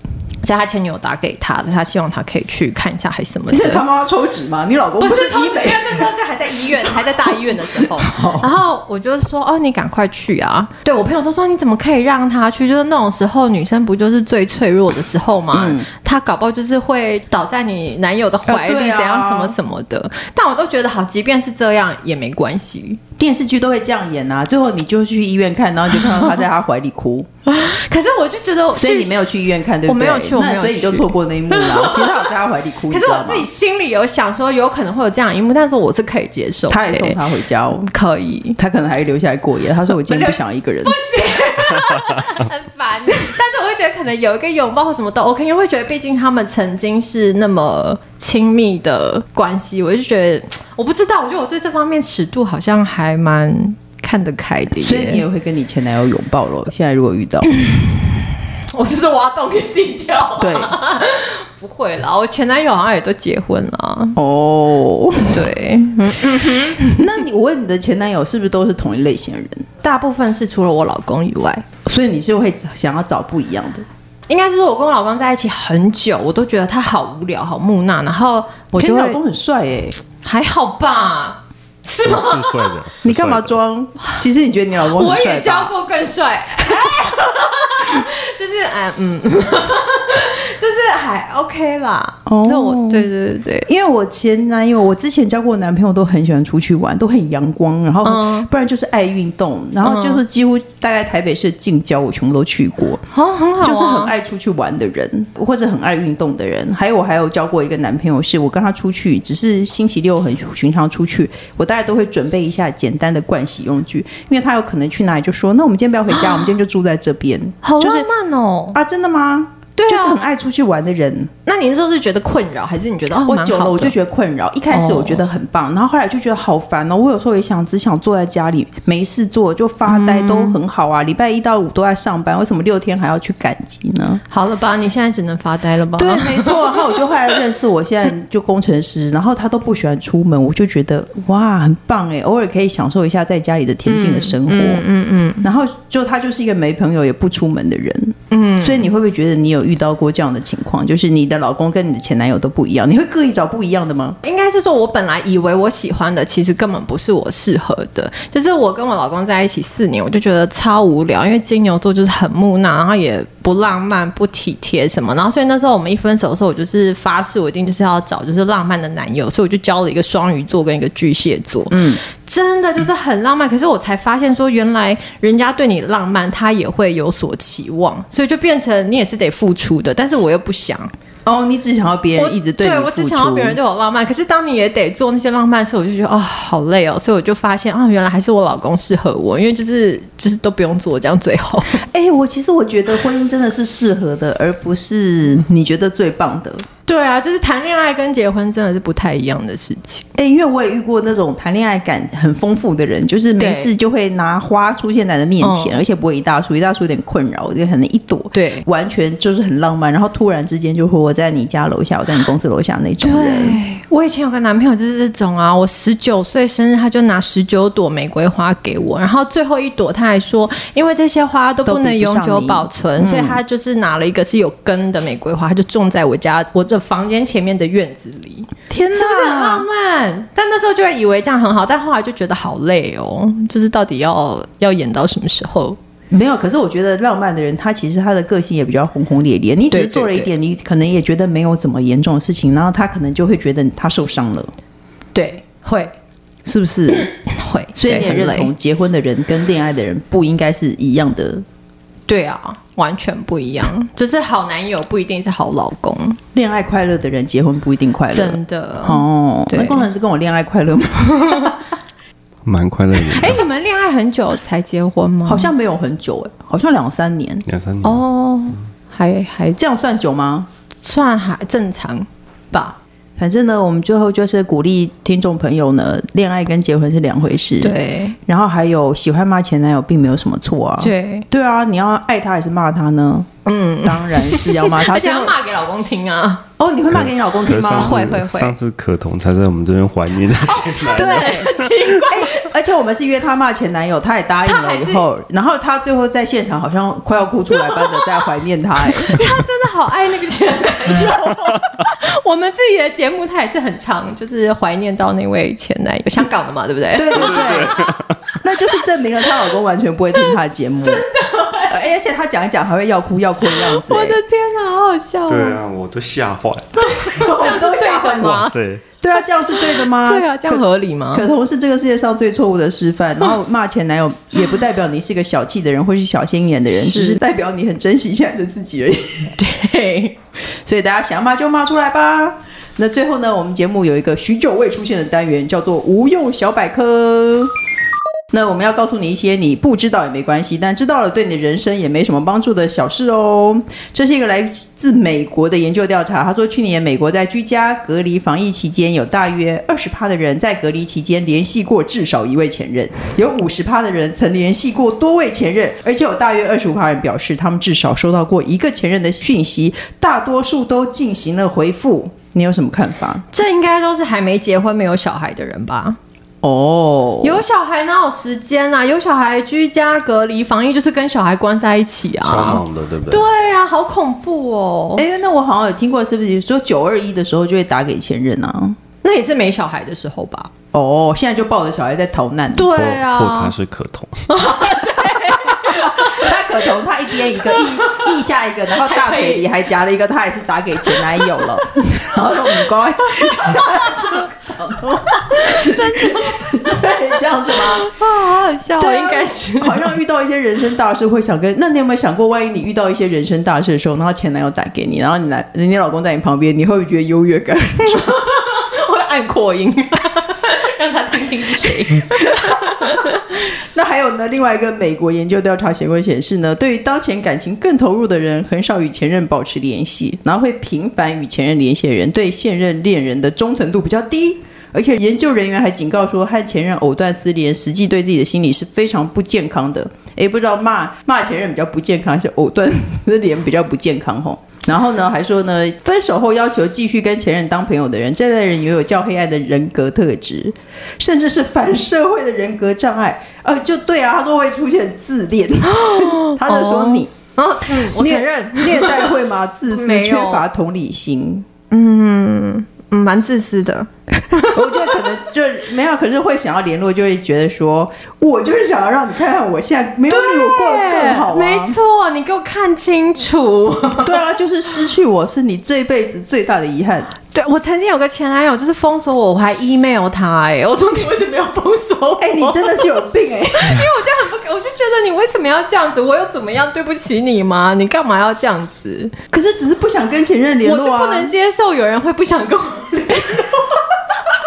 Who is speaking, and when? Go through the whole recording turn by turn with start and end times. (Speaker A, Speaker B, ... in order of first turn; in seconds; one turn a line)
Speaker A: 0.4-3.8
Speaker B: 3.5-6.1
Speaker A: 5.0-23.0
Speaker B: 7.5-8.5
Speaker B: 15.5-15.9
Speaker B: 18.5-19.6
Speaker B: 23.2-27.3
Speaker A: 27.5-29.2
Speaker B: 28.7-33.5
Speaker A: 29.9-32.3
Speaker A: 32.9-37.2
Speaker B: 36.7-37.9
Speaker A: 37.9-38.6
Speaker B: 38.6-41.0
Speaker A: 40.0-55.2
Speaker B: 54.8-57.5
Speaker A: 57.6-64.2
Speaker B: 60.4-60.7
Speaker B: 64.2-65.4
Speaker A: 65.3-67.1
Speaker B: 66.9-69.7
Speaker A: 69.8-71.7
Speaker B: 71.9-73.8
Speaker A: 74.3-79.2
Speaker B: 78.8-80.0
Speaker A: 80.2-82.7
Speaker C: 82.0-83.6
Speaker B: 83.0-85.7
Speaker A: 84.9-93.7
Speaker B: 92.3-93.1
Speaker B: 93.7-103.0
Speaker A: 98.0-98.5
Speaker A: 99.8-100.2
Speaker A: 103.1-104.1
Speaker B: 103.6-118.1
Speaker A: 116.1-116.5
Speaker A: 117.6-118.8
Speaker B: 118.7-121.3
Speaker A: 119.8-120.2
Speaker A: 121.5-123.9
Speaker B: 123.2-134.2
Speaker A: 124.7-125.2
Speaker A: 129.8-130.6
Speaker A: 134.3-137.4
Speaker B: 136.0-144.8
Speaker A: 143.9-145.5
Speaker B: 145.4-154.2
Speaker A: 148.3-148.9
Speaker A: 154.2-180.9
Speaker B: 171.7-172.0
Speaker B: 181.3-183.6
Speaker A: 182.2-191.8
Speaker B: 191.8-196.7
Speaker A: 196.9-200.1
Speaker B: 200.2-213.6
Speaker A: 203.4-203.7
Speaker A: 205.4-205.8
Speaker A: 208.3-208.7
Speaker A: 213.0-235.8
Speaker B: 221.7-223.4
Speaker B: 228.7-229.7
Speaker B: 236.1-244.5
Speaker A: 239.7-240.3
Speaker A: 245.2-245.9
Speaker B: 246.5-247.1
Speaker A: 247.1-248.5
Speaker B: 247.8-251.4
Speaker A: 252.1-256.2
Speaker B: 256.3-261.6
Speaker A: 258.1-259.9
Speaker A: 261.2-261.5
Speaker C: 262.4-263.4
Speaker A: 263.0-265.5
Speaker B: 265.3-267.4
Speaker C: 267.5-268.0
Speaker A: 267.8-269.6
Speaker B: 269.6-270.5
Speaker A: 270.8-272.8
Speaker B: 273.2-277.8
Speaker A: 277.6-278.2
Speaker B: 278.3-283.3
Speaker A: 280.8-281.2
Speaker A: 283.5-286.4
Speaker B: 283.8-285.3
Speaker B: 286.6-288.0
Speaker C: 286.9-291.8
Speaker A: 287.6-288.6
Speaker A: 290.6-292.5
Speaker B: 290.9-299.2
Speaker A: 294.5-295.1
Speaker A: 297.6-298.3
Speaker A: 298.8-308.0
Speaker B: 306.9-307.8
Speaker C: 307.1-308.2
Speaker B: 308.4-311.1
Speaker A: 310.2-311.9
Speaker B: 311.7-314.2
Speaker A: 313.5-315.6
Speaker C: 315.3-317.3
Speaker B: 316.8-318.3
Speaker A: 317.0-318.6
Speaker C: 318.2-318.8
Speaker B: 319.0-329.3
Speaker A: 319.5-321.3
Speaker A: 326.8-327.2
Speaker A: 329.4-330.1
Speaker B: 330.6-337.5
Speaker B: 338.3-363.2
Speaker A: 363.3-366.0
Speaker B: 366.4-367.4
Speaker A: 367.2-375.1
Speaker C: 372.2-373.3
Speaker B: 375.0-378.8
Speaker A: 379.0-380.5
Speaker B: 380.7-382.8
Speaker A: 382.5-383.6
Speaker C: 382.7-384.4
Speaker A: 384.3-386.4
Speaker B: 385.1-397.9
Speaker A: 387.4-388.2
Speaker A: 388.7-389.5
Speaker A: 393.3-394.1
Speaker A: 395.2-397.0
Speaker A: 397.6-400.0
Speaker B: 398.8-408.2
Speaker A: 407.9-413.4
Speaker B: 412.2-412.5
Speaker B: 413.7-447.1
Speaker A: 445.7-449.1
Speaker B: 447.9-451.5
Speaker A: 449.7-450.5
Speaker A: 451.7-455.0
Speaker B: 454.3-461.8
Speaker A: 460.1-464.2
Speaker B: 464.0-467.1
Speaker A: 467.3-472.9
Speaker B: 472.2-473.8
Speaker A: 473.5-479.1
Speaker B: 479.3-481.3
Speaker A: 480.6-483.8